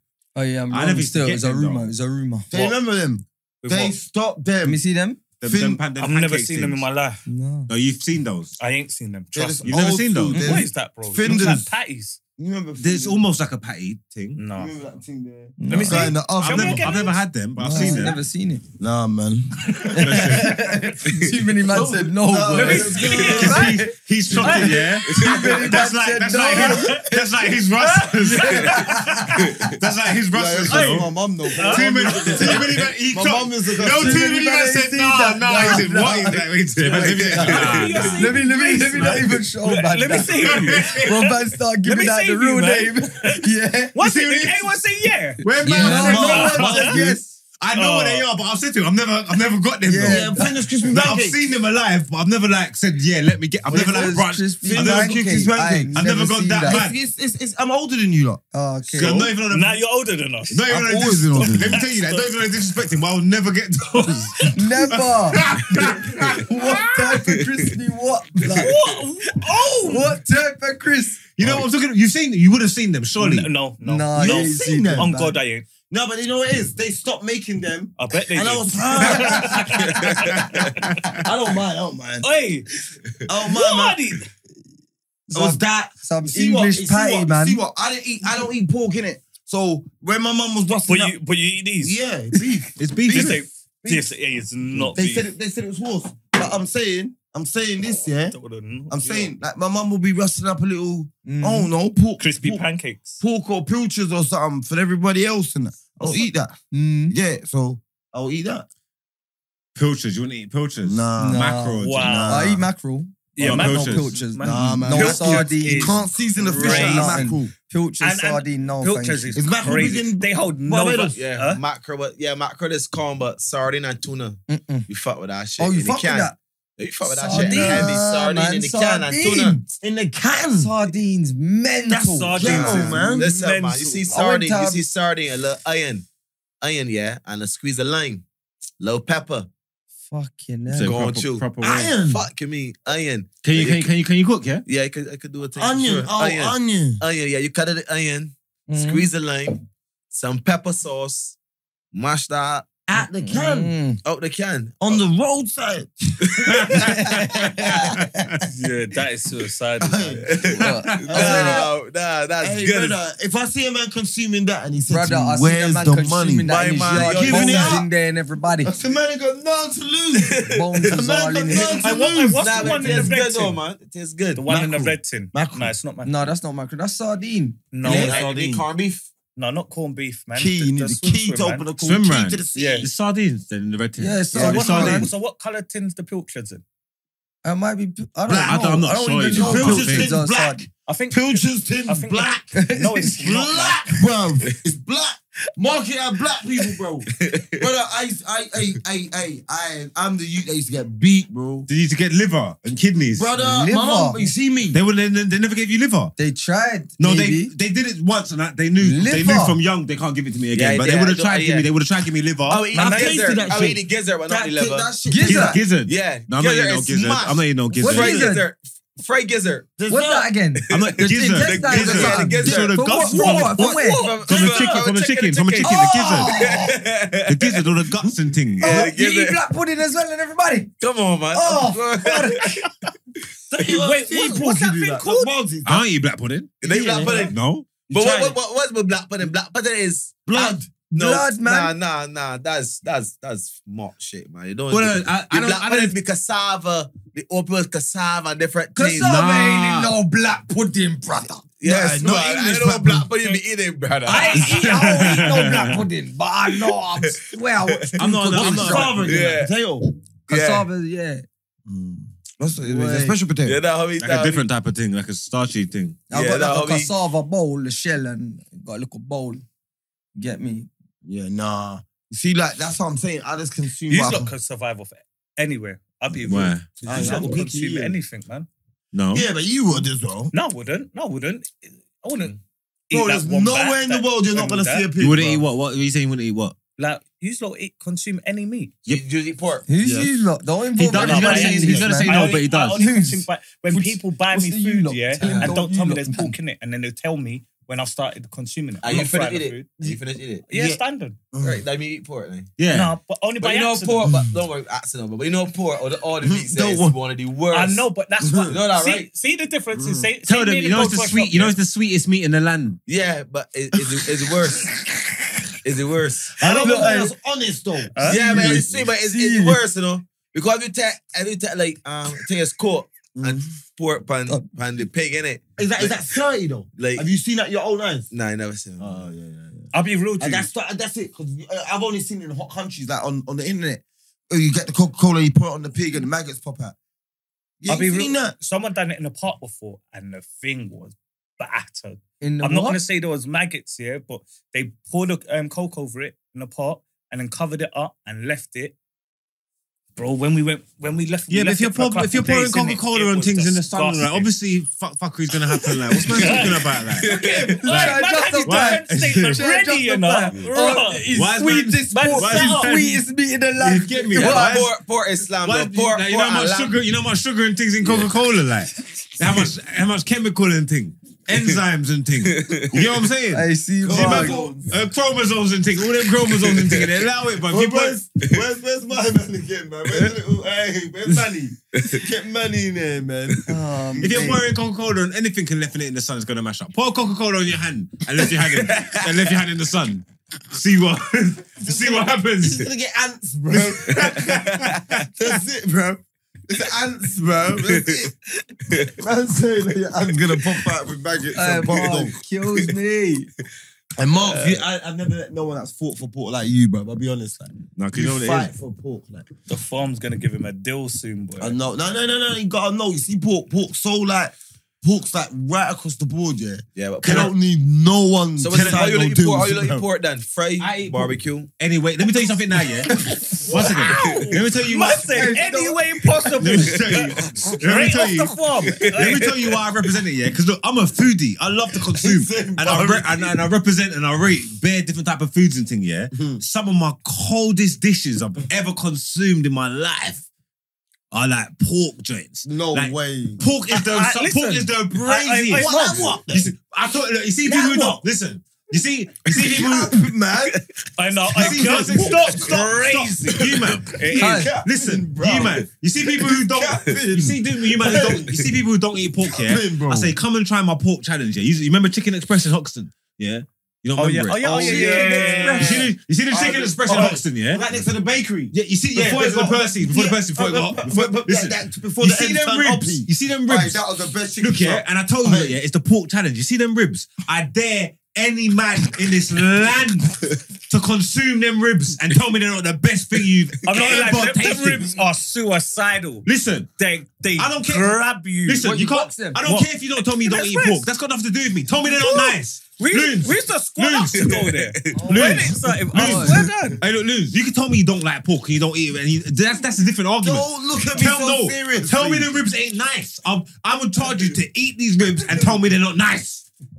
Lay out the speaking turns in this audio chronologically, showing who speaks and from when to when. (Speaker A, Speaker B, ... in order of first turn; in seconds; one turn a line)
Speaker A: 0.3-2.6
Speaker B: 0.7-1.9
Speaker C: 2.5-4.8
Speaker D: 3.6-3.9
Speaker A: 4.6-5.2
Speaker B: 5.4-6.9
Speaker C: 5.4-5.8
Speaker D: 6.0-7.2
Speaker A: 7.3-7.7
Speaker B: 7.7-8.5
Speaker D: 8.6-12.2
Speaker C: 9.3-11.7
Speaker B: 9.6-10.4
Speaker A: 10.3-10.6
Speaker C: 12.4-13.2
Speaker B: 12.8-14.4
Speaker D: 14.3-14.7
Speaker C: 14.5-16.9
Speaker A: 15.6-16.1
Speaker D: 15.7-17.2
Speaker B: 16.4-18.2
Speaker A: 17.6-18.6
Speaker D: 17.8-18.1
Speaker C: 18.8-20.4
Speaker A: 19.9-27.1
Speaker B: 20.0-20.7
Speaker C: 21.6-23.8
Speaker D: 22.5-23.8
Speaker B: 23.2-29.1
Speaker C: 24.3-24.7
Speaker D: 24.4-25.5
Speaker E: 25.1-25.5
Speaker D: 26.4-27.1
Speaker D: 27.7-29.7
Speaker A: 28.3-29.4
Speaker B: 29.6-38.3
Speaker C: 30.3-34.3
Speaker D: 30.7-32.8
Speaker A: 33.9-44.0
Speaker D: 36.8-41.2
Speaker E: 37.5-38.0
Speaker B: 40.4-41.1
Speaker D: 41.8-43.4
Speaker D: 43.9-47.0
Speaker B: 44.0-44.7
Speaker B: 45.4-47.0
Speaker A: 45.6-47.2
Speaker C: 45.6-47.3
Speaker B: 47.6-55.2
Speaker D: 47.7-48.3
Speaker A: 49.9-50.5
Speaker C: 50.0-51.4
Speaker C: 53.7-56.1
Speaker A: 53.7-56.8
Speaker B: 55.9-57.0
Speaker C: 56.6-58.4
Speaker A: 58.5-59.2
Speaker B: 58.9-59.8
Speaker C: 59.0-59.2
Speaker D: 59.2-60.7
Speaker B: 60.5-66.8
Speaker C: 60.7-61.8
Speaker D: 61.4-62.3
Speaker A: 64.5-65.4
Speaker A: 66.4-68.7
Speaker D: 68.6-70.1
Speaker A: 69.8-71.6
Speaker B: 71.3-73.5
Speaker D: 73.2-75.7
Speaker A: 73.8-75.4
Speaker C: 74.2-75.2
Speaker C: 75.9-79.9
Speaker D: 78.0-81.0
Speaker B: 80.2-81.2
Speaker C: 81.2-82.3
Speaker D: 82.2-82.7
Speaker C: 83.2-84.0
Speaker D: 83.5-84.3
Speaker A: 85.3-87.6
Speaker C: 85.3-91.2
Speaker D: 90.9-92.0
Speaker C: 91.8-94.1
Speaker B: 92.8-93.5
Speaker D: 93.1-95.3
Speaker C: 94.9-98.4
Speaker D: 98.3-99.3
Speaker C: 98.9-102.6
Speaker A: 101.2-101.7
Speaker D: 102.2-103.2
Speaker C: 103.2-106.5
Speaker A: 106.7-107.2
Speaker C: 107.1-108.7
Speaker B: 109.7-112.2
Speaker C: 110.8-112.7
Speaker A: 111.2-119.5
Speaker D: 111.8-112.4
Speaker D: 113.3-117.3
Speaker B: 113.4-114.2
Speaker C: 114.4-117.5
Speaker D: 118.0-121.6
Speaker C: 119.3-120.3
Speaker E: 120.7-129.6
Speaker A: 124.5-124.9
Speaker A: 125.6-126.4
Speaker A: 127.0-129.6
Speaker C: 127.4-128.0
Speaker C: 129.8-130.7
Speaker A: 130.6-133.1
Speaker D: 131.9-134.1
Speaker C: 132.3-133.3
Speaker E: 132.5-136.1
Speaker A: 134.1-134.8
Speaker E: 136.6-138.2
Speaker E: 138.8-139.5
Speaker A: 140.1-141.0
Speaker B: 140.7-141.9
Speaker E: 140.8-141.5
Speaker C: 141.6-142.2
Speaker E: 142.0-143.9
Speaker B: 143.4-144.6
Speaker E: 144.7-151.4
Speaker C: 145.6-147.0
Speaker A: 148.7-149.1
Speaker E: 151.9-152.7
Speaker C: 152.9-153.7
Speaker A: 153.2-154.0
Speaker E: 154.0-155.0
Speaker C: 154.8-156.8
Speaker E: 156.2-156.7
Speaker B: 156.4-158.4
Speaker A: 156.8-157.9
Speaker D: 158.4-160.5
Speaker C: 159.8-160.5
Speaker E: 160.2-163.0
Speaker A: 160.5-161.7
Speaker C: 161.1-161.7
Speaker C: 162.4-167.9
Speaker A: 164.9-168.7
Speaker E: 166.4-167.8
Speaker C: 168.6-173.1
Speaker E: 170.1-174.4
Speaker A: 170.5-171.8
Speaker D: 171.8-173.6
Speaker D: 174.3-176.3
Speaker C: 174.5-175.7
Speaker A: 176.0-177.7
Speaker D: 177.7-178.6
Speaker E: 177.8-179.1
Speaker C: 177.8-178.5
Speaker D: 179.3-181.7
Speaker C: 180.3-182.9
Speaker B: 181.8-185.1
Speaker D: 182.5-182.9
Speaker A: 184.0-185.1
Speaker D: 184.3-186.6
Speaker A: 187.4-190.7
Speaker C: 188.3-188.6
Speaker B: 188.3-190.2
Speaker C: 189.3-192.5
Speaker D: 190.8-193.8
Speaker A: 192.5-193.2
Speaker C: 193.1-201.7
Speaker E: 197.2-197.7
Speaker B: 201.7-203.3
Speaker C: 203.2-204.8
Speaker A: 203.4-204.3
Speaker B: 204.7-206.1
Speaker A: 206.2-207.5
Speaker B: 207.0-212.7
Speaker A: 208.8-209.6
Speaker E: 210.5-211.7
Speaker E: 212.5-214.9
Speaker C: 212.7-215.6
Speaker D: 212.7-213.2
Speaker A: 215.1-215.6
Speaker B: 215.2-218.3
Speaker E: 215.8-219.7
Speaker A: 217.7-218.5
Speaker C: 219.8-220.3
Speaker A: 219.9-224.4
Speaker E: 220.7-227.8
Speaker B: 220.7-226.5
Speaker C: 222.4-222.7
Speaker D: 223.7-224.8
Speaker A: 225.6-226.8
Speaker B: 227.2-228.9
Speaker E: 228.6-229.4
Speaker A: 228.6-230.7
Speaker E: 230.8-232.7
Speaker A: 231.3-232.6
Speaker C: 233.5-235.8
Speaker D: 233.6-235.3
Speaker B: 235.6-236.6
Speaker C: 236.6-237.3
Speaker E: 236.6-237.3
Speaker B: 237.2-237.7
Speaker C: 237.9-238.4
Speaker E: 237.9-249.1
Speaker C: 240.2-240.7
Speaker A: 240.9-241.7
Speaker B: 244.7-245.9
Speaker A: 248.7-251.4
Speaker B: 248.9-249.9
Speaker E: 251.6-255.6
Speaker C: 251.6-253.1
Speaker A: 254.1-259.1
Speaker D: 254.1-254.7
Speaker B: 254.4-255.8
Speaker E: 256.5-257.9
Speaker B: 258.0-259.2
Speaker C: 258.4-259.8
Speaker E: 258.9-259.5
Speaker E: 260.3-260.7
Speaker A: 260.3-261.2
Speaker C: 261.6-263.6
Speaker A: 262.6-263.1
Speaker E: 263.4-264.4
Speaker B: 264.0-266.0
Speaker A: 266.1-269.4
Speaker E: 266.1-266.9
Speaker A: 270.1-270.7
Speaker C: 271.0-274.3
Speaker D: 273.9-278.5
Speaker B: 276.1-276.8
Speaker C: 276.8-277.9
Speaker B: 278.9-279.2
Speaker C: 279.1-280.3
Speaker D: 280.3-282.4
Speaker D: 282.9-284.9
Speaker C: 282.9-285.4
Speaker B: 285.0-286.6
Speaker D: 286.8-288.8
Speaker E: 288.9-289.6
Speaker A: 289.7-292.2
Speaker C: 289.8-290.1
Speaker B: 290.8-293.1
Speaker D: 290.9-299.7
Speaker C: 291.6-291.9
Speaker A: 292.8-296.3
Speaker E: 298.8-300.8
Speaker D: 300.5-301.2
Speaker C: 301.3-301.6
Speaker E: 301.4-302.5
Speaker B: 302.6-303.0
Speaker D: 302.7-304.1
Speaker E: 303.4-307.9
Speaker C: 304.0-304.4
Speaker C: 306.2-306.9
Speaker D: 307.5-311.6
Speaker C: 308.2-308.6
Speaker E: 308.5-309.1
Speaker C: 309.7-310.1
Speaker B: 310.2-312.8
Speaker E: 312.9-314.6
Speaker E: 315.6-316.6
Speaker C: 316.4-318.7
Speaker D: 316.5-316.9
Speaker A: 316.6-317.1
Speaker D: 317.9-318.6
Speaker E: 318.0-326.0
Speaker A: 318.9-319.6
Speaker C: 323.1-323.5
Speaker C: 325.6-328.1
Speaker E: 326.8-327.1
Speaker E: 328.1-329.1
Speaker C: 328.8-336.8
Speaker D: 329.7-330.5
Speaker C: 337.6-338.4
Speaker D: 337.7-348.7
Speaker A: 342.2-342.8
Speaker D: 349.9-354.3
Speaker B: 351.3-359.5
Speaker D: 355.5-361.1
Speaker E: 357.0-357.6
Speaker A: 357.6-364.6
Speaker B: 361.1-363.0
Speaker D: 361.9-362.7
Speaker B: 363.6-364.7
Speaker E: 364.1-366.7
Speaker B: 365.4-378.0
Speaker E: 367.8-368.1
Speaker E: 372.2-372.9
Speaker A: 373.3-374.4
Speaker C: 373.8-374.7
Speaker E: 376.2-377.0
Speaker C: 377.4-384.4
Speaker E: 381.7-382.0
Speaker A: 383.5-384.4
Speaker B: 384.0-392.7
Speaker E: 388.7-389.0
Speaker C: 391.6-394.3
Speaker B: 393.5-395.1
Speaker E: 393.9-395.0
Speaker C: 395.1-398.1
Speaker E: 397.6-398.1
Speaker E: 398.7-398.9
Speaker C: 398.8-402.1
Speaker E: 400.1-400.7
Speaker A: 401.3-403.3
Speaker C: 404.0-409.3
Speaker E: 404.2-404.6
Speaker B: 407.8-408.5
Speaker D: 409.5-411.5
Speaker C: 411.4-419.8
Speaker E: 416.8-417.3
Speaker B: 417.0-417.3
Speaker E: 418.4-421.5
Speaker B: 418.5-418.9
Speaker B: 420.6-425.3
Speaker D: 423.4-429.5
Speaker A: 425.1-426.0
Speaker B: 426.4-440.2
Speaker E: 428.7-429.6
Speaker C: 431.9-433.3
Speaker C: 436.1-436.4
Speaker B: 441.1-449.9
Speaker C: 442.4-443.4
Speaker D: 443.7-446.2
Speaker C: 445.5-446.5
Speaker C: 447.4-448.0
Speaker C: 449.3-450.6
Speaker D: 451.0-454.5
Speaker B: 451.3-467.6
Speaker C: 451.4-452.1
Speaker C: 454.1-458.4
Speaker A: 454.1-454.5
Speaker E: 458.0-458.4
Speaker C: 459.2-460.1
Speaker D: 464.0-465.9
Speaker C: 464.4-475.6
Speaker B: 468.5-473.8
Speaker B: 474.4-484.9
Speaker D: 483.6-488.7
Speaker B: 486.2-486.7
Speaker B: 487.4-494.3
Speaker A: 488.6-489.4
Speaker D: 489.4-490.9
Speaker D: 491.8-496.8
Speaker E: 494.1-495.0
Speaker A: 494.9-496.4
Speaker B: 495.0-506.4
Speaker C: 500.2-502.4